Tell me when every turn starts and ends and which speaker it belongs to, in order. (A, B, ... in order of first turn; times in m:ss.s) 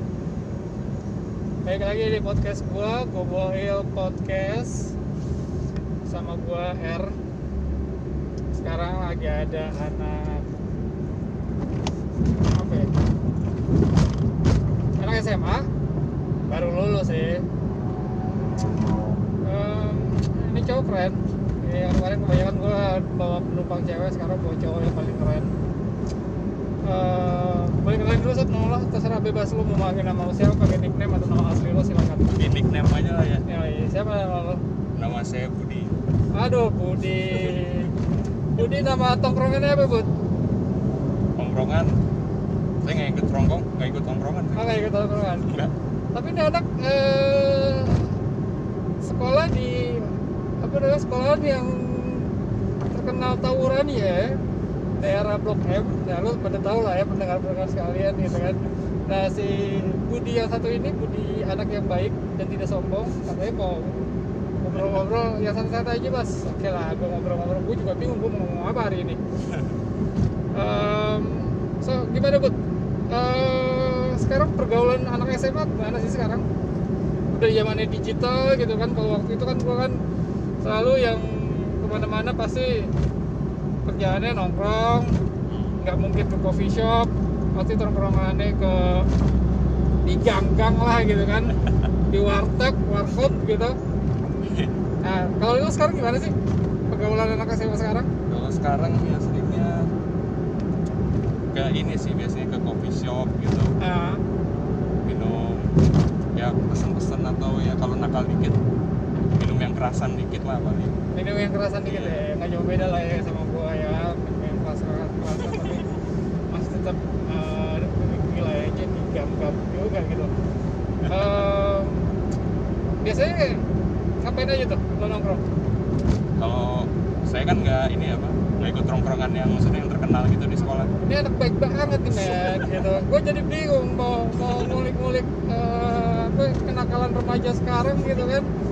0:01.6-0:05.0 A
0:06.0-0:07.1 A
0:08.6-0:10.5 A
0:12.5-0:12.9 A
0:15.0-0:15.7 A
0:16.5-0:17.5 A
0:19.4-0:25.5 A
0:26.8-0:32.3 A
0:32.4-0:33.5 B
0:33.5-0:34.6 A
0:35.0-0:36.0 B
0:36.3-0:38.0 A
0:38.5-0:40.1 A
0:41.4-0:42.0 B
0:42.8-0:45.7 B
0:44.6-0:45.6 A
0:46.1-0:48.1 A
0:49.0-0:52.3 A
0:52.9-0:54.4 A
0:55.0-1:04.1 A
1:04.6-1:09.2 A
1:10.5-1:12.6 A
1:13.1-1:16.4 A
1:17.3-1:20.0 A
1:20.6-1:22.9 A
1:23.9-1:25.1 A
1:25.5-1:25.8 B
1:25.8-1:29.1 A
1:30.1-1:33.8 A
1:34.4-1:34.8 B
1:35.0-1:36.3 A
1:36.9-1:38.1 A
1:38.3-1:39.9 B
1:41.5-1:43.8 B
1:43.8-1:44.2 A
1:45.0-1:48.6 B
1:49.2-1:51.0 B
1:51.1-1:55.9 A
1:51.8-1:52.2 B
1:55.4-1:56.1 B
1:56.5-2:00.3 A
2:01.0-2:01.4 B
2:01.1-2:02.2 A
2:03.0-2:03.6 A
2:04.2-2:05.4 A
2:06.4-2:10.9 B
2:10.8-2:18.5 A
2:11.8-2:13.0 B
2:14.4-2:14.8 B